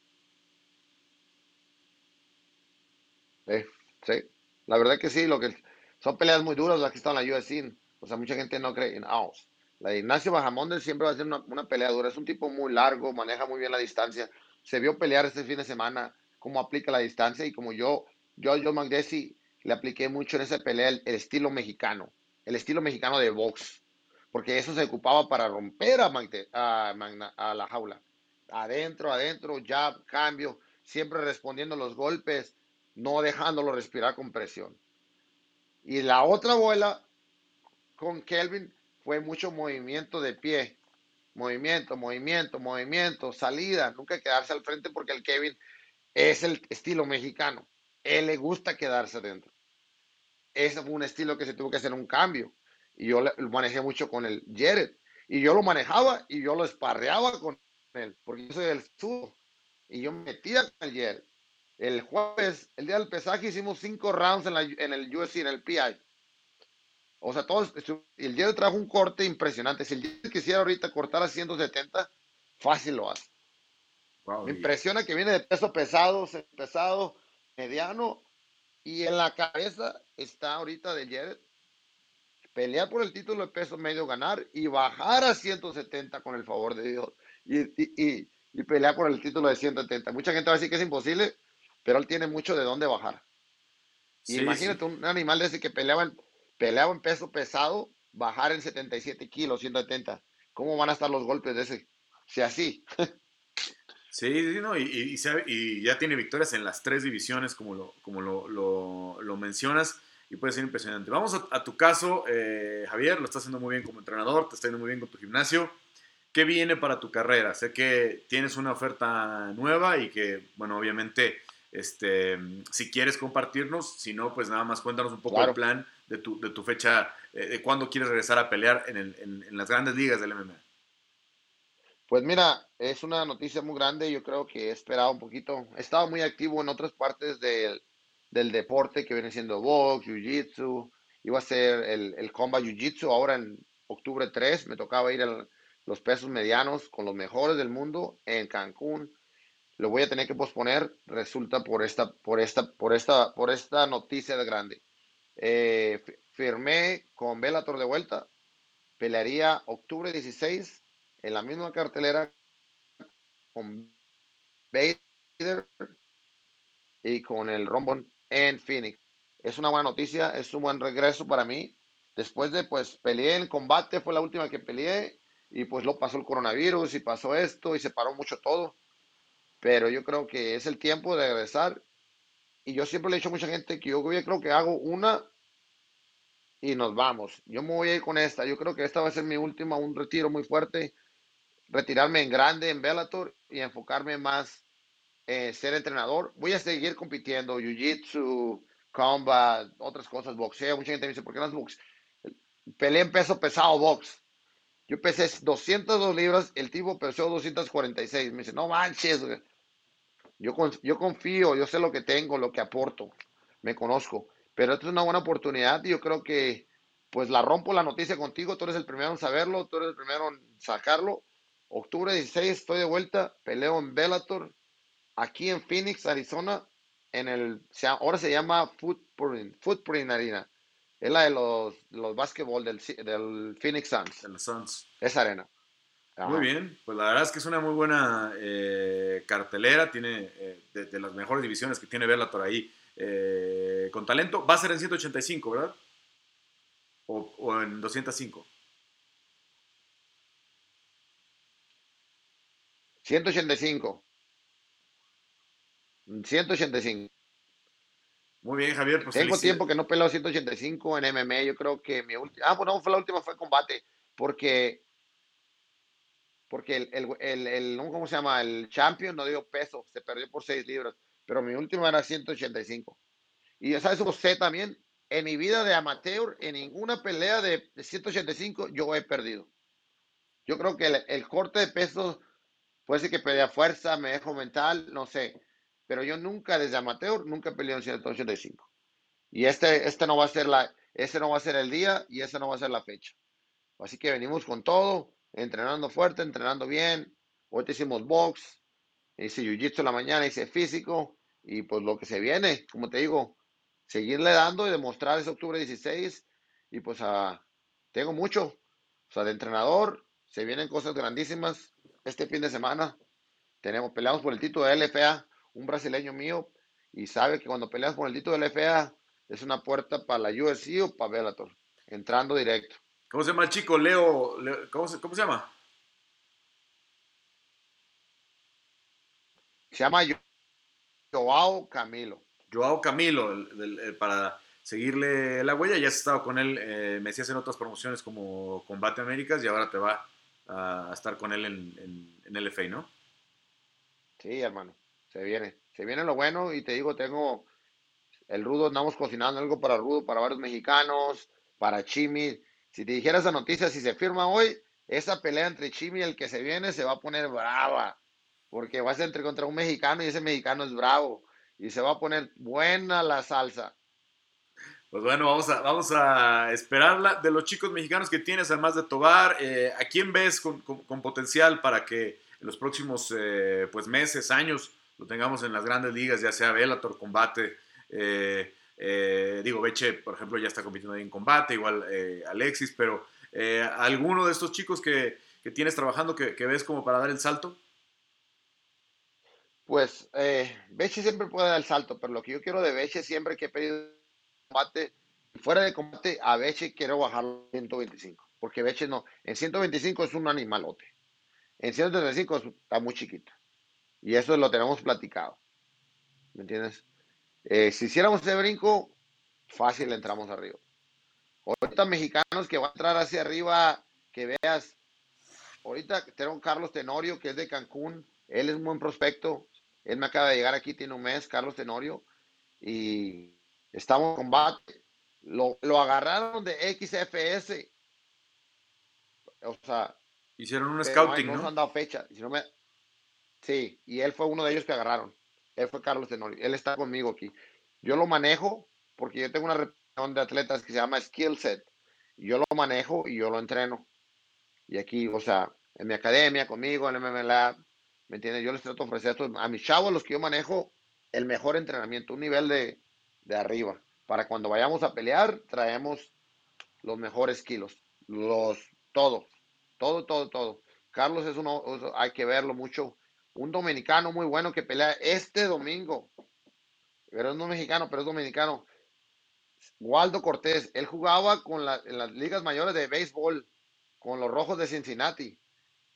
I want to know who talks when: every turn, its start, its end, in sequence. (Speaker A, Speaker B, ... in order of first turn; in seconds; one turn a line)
Speaker A: 3.5-34.8
Speaker A: 35.8-37.0
Speaker A: 38.0-40.8
Speaker A: 41.3-45.6
Speaker A: 46.1-49.5
Speaker A: 50.5-59.4
Speaker A: 59.9-61.2
Speaker A: 61.8-66.0
Speaker A: 67.2-73.3
Speaker B: 74.2-74.7
Speaker A: 74.4-78.2
Speaker A: 78.8-81.4
Speaker A: 82.5-93.2
Speaker B: 94.2-94.8
Speaker A: 94.3-102.8
Speaker B: 104.1-115.7
Speaker B: 116.3-130.6
Speaker A: 125.3-125.6
Speaker A: 132.1-149.1
Speaker A: 149.8-154.8
Speaker A: 155.4-158.3
Speaker A: 159.0-162.3
Speaker A: 163.5-163.9
Speaker A: 164.7-165.7
Speaker A: 167.0-178.8
Speaker A: 179.6-181.8
Speaker A: 182.6-185.3
Speaker A: 186.6-190.9
Speaker A: 191.7-194.6
Speaker A: 195.3-204.2
Speaker A: 204.9-209.4
Speaker A: 210.4-224.5
Speaker A: 225.2-230.5
Speaker A: 231.0-234.2
Speaker B: 234.2-234.8
Speaker A: 235.0-235.5
Speaker A: 236.2-236.5
Speaker B: 236.2-245.8
Speaker B: 247.1-248.5
Speaker A: 253.0-254.0
Speaker A: 256.1-257.1
Speaker B: 258.4-259.6
Speaker A: 259.1-264.8
Speaker A: 266.5-273.0
Speaker A: 273.6-279.5
Speaker A: 280.4-282.2
Speaker A: 282.9-288.7
Speaker A: 289.3-293.1
Speaker A: 293.8-298.6
Speaker A: 299.2-303.4
Speaker A: 303.9-307.4
Speaker A: 307.9-308.6
Speaker A: 309.1-313.0
Speaker A: 313.6-322.8
Speaker B: 323.1-325.5
Speaker A: 329.7-330.2
Speaker A: 331.1-332.2
Speaker B: 332.5-342.9
Speaker A: 344.2-347.5
Speaker A: 348.3-358.0
Speaker A: 358.5-363.7
Speaker B: 364.9-387.6
Speaker A: 389.7-394.0
Speaker A: 394.5-400.9
Speaker A: 401.6-403.3
Speaker A: 404.0-405.4
Speaker A: 406.3-406.8
Speaker A: 407.4-408.9
Speaker A: 409.5-410.6
Speaker A: 411.4-414.8
Speaker A: 415.6-422.0
Speaker A: 422.6-427.7
Speaker A: 429.4-430.0
Speaker B: 430.4-431.5
Speaker A: 430.8-432.4
Speaker A: 433.4-441.7
Speaker A: 442.2-443.9
Speaker A: 444.7-447.6
Speaker A: 448.1-456.1
Speaker A: 456.8-466.1
Speaker A: 467.1-468.6
Speaker A: 469.8-473.5
Speaker A: 474.0-475.4